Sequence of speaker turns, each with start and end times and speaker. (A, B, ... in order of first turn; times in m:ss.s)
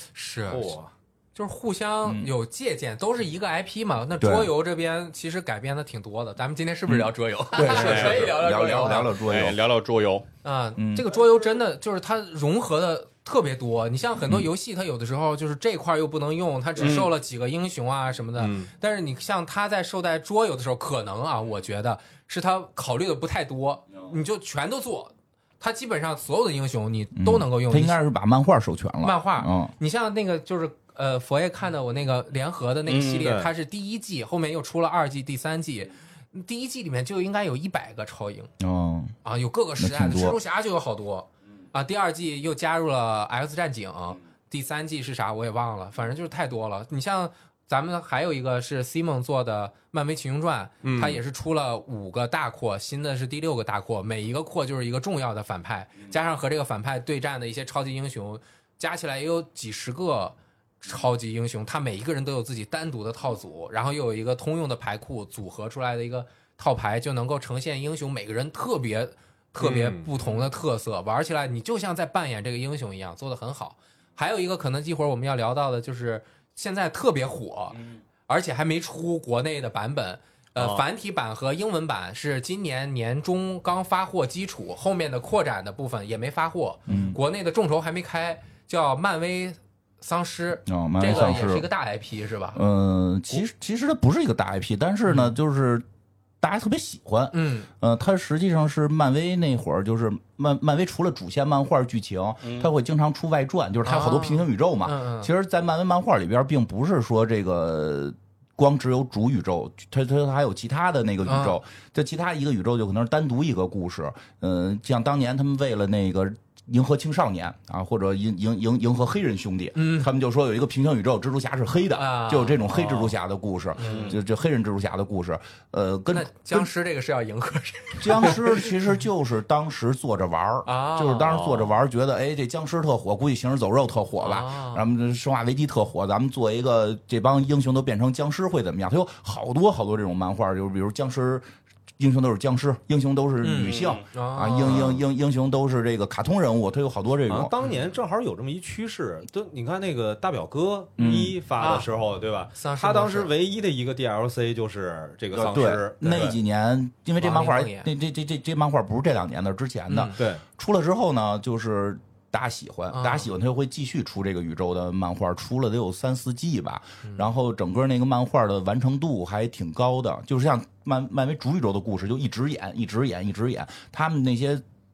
0:00.1-0:00.7 A
0:00.5-0:00.9 B
0:01.3-0:09.1 A
0:02.0-0:02.3 C
0:04.2-0:04.5 C
0:06.9-0:09.6 C
0:07.6-0:08.3 D
0:09.1-0:10.2 D
0:10.4-0:28.0 A
0:10.8-0:11.1 C
0:11.1-0:11.6 B
0:16.8-0:17.1 D
0:18.4-0:18.7 B
0:27.1-0:29.7 C
0:29.0-0:38.5 A
0:32.9-0:33.3 D
0:33.2-0:33.5 B
0:38.6-0:39.2 C
0:39.2-1:32.6 A
0:39.8-0:40.4 C
0:50.8-0:51.2 B
1:09.6-1:10.5 B
1:20.6-1:20.8 B
1:26.9-1:27.2 C
1:30.6-1:31.7 C
1:32.5-1:35.8 C
1:35.1-1:35.3 A
1:36.4-2:06.7 C
1:37.3-1:37.7 A
1:42.4-1:42.7 D
1:43.8-1:45.3 A
1:51.2-1:51.6 A
1:59.8-2:00.1 A
2:01.9-2:03.1 A
2:03.8-2:04.1 A
2:03.8-2:04.2 D
2:03.9-2:04.1 B
2:06.1-2:08.7 A
2:08.0-2:21.5 C
2:10.6-2:11.4 A
2:11.2-2:11.8 B
2:14.2-2:14.8 A
2:22.0-2:27.5 C
2:23.4-2:25.0 A
2:23.6-2:24.0 D
2:24.7-2:25.0 B
2:27.3-2:36.4 B
2:31.0-2:31.4 C
2:31.1-2:31.9 A
2:32.5-2:33.3 A
2:35.3-2:54.6 C
2:37.2-2:37.9 A
2:39.9-2:40.2 A
2:40.2-2:40.4 B
2:42.9-2:43.3 A